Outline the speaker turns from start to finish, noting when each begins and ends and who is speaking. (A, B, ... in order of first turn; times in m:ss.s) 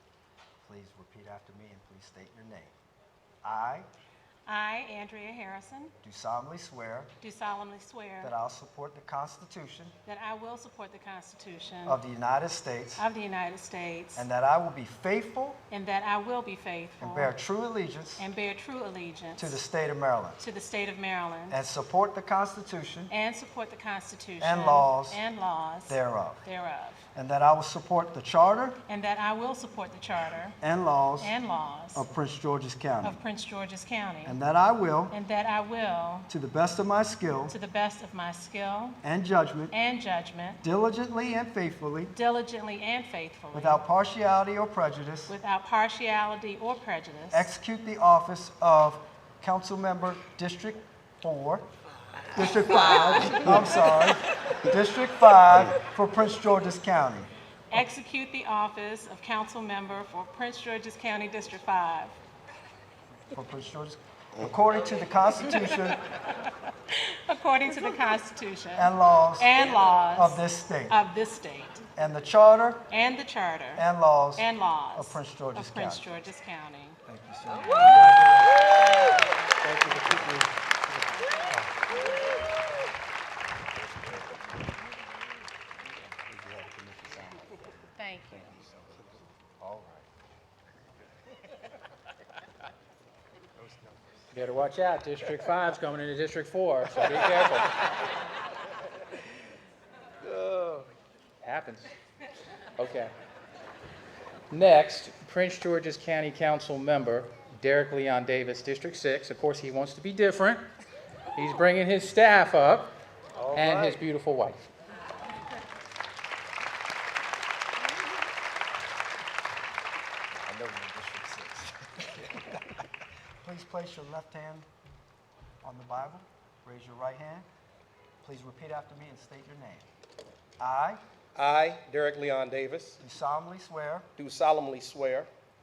0:00.6-0:02.7 A
0:03.4-0:03.9 A
0:04.5-0:05.9 B
0:06.0-0:07.1 A
0:07.2-0:08.3 B
0:08.2-0:10.0 A
0:10.0-0:12.0 B
0:11.8-0:13.0 A
0:13.0-0:14.3 B
0:14.2-0:15.6 A
0:15.7-0:17.3 B
0:17.0-0:18.3 A
0:18.2-0:19.6 B
0:19.4-0:20.4 A
0:20.4-0:21.6 B
0:21.5-0:23.1 A
0:23.1-0:27.0 B
0:24.4-0:25.2 A
0:25.9-0:26.4 A
0:27.2-0:28.8 A
0:28.9-0:30.6 B
0:30.6-0:31.4 A
0:31.2-0:32.0 B
0:31.9-0:33.2 A
0:33.0-0:34.4 B
0:34.2-0:35.2 A
0:35.1-0:36.3 B
0:36.3-0:37.6 A
0:37.5-0:39.0 B
0:39.0-0:39.8 A
0:39.7-0:40.6 B
0:40.6-0:42.1 A
0:42.1-0:43.8 B
0:43.5-0:45.4 A
0:45.3-0:47.5 B
0:47.3-0:51.6 A
0:52.3-0:57.3 A
0:52.4-0:54.6 B
0:52.9-0:53.5 C
0:57.7-1:02.2 B
1:03.3-1:06.0 A
1:05.4-1:06.0 B
1:06.9-1:11.8 B
1:08.8-1:11.0 A
1:12.0-1:12.9 A
1:12.9-1:17.0 B
1:13.8-1:16.1 A
1:17.1-1:19.1 A
1:17.7-1:18.1 B
1:19.6-1:20.5 D
1:23.9-1:24.2 A
1:26.3-1:27.8 A
1:28.0-1:28.4 C
1:28.4-1:30.1 A
1:34.3-1:37.7 D
1:40.3-1:40.9 C
1:41.4-1:41.9 D
1:42.8-1:43.1 D
1:44.5-1:50.6 D
1:51.4-1:52.9 D
1:53.5-1:54.6 D
1:53.5-1:53.9 A
2:00.3-2:02.6 A
2:03.4-2:04.7 A
2:05.6-2:07.5 A
2:08.2-2:09.9 A
2:10.6-2:11.0 A
2:11.4-2:13.0 C
2:13.0-2:14.1 A
2:14.2-2:15.3 C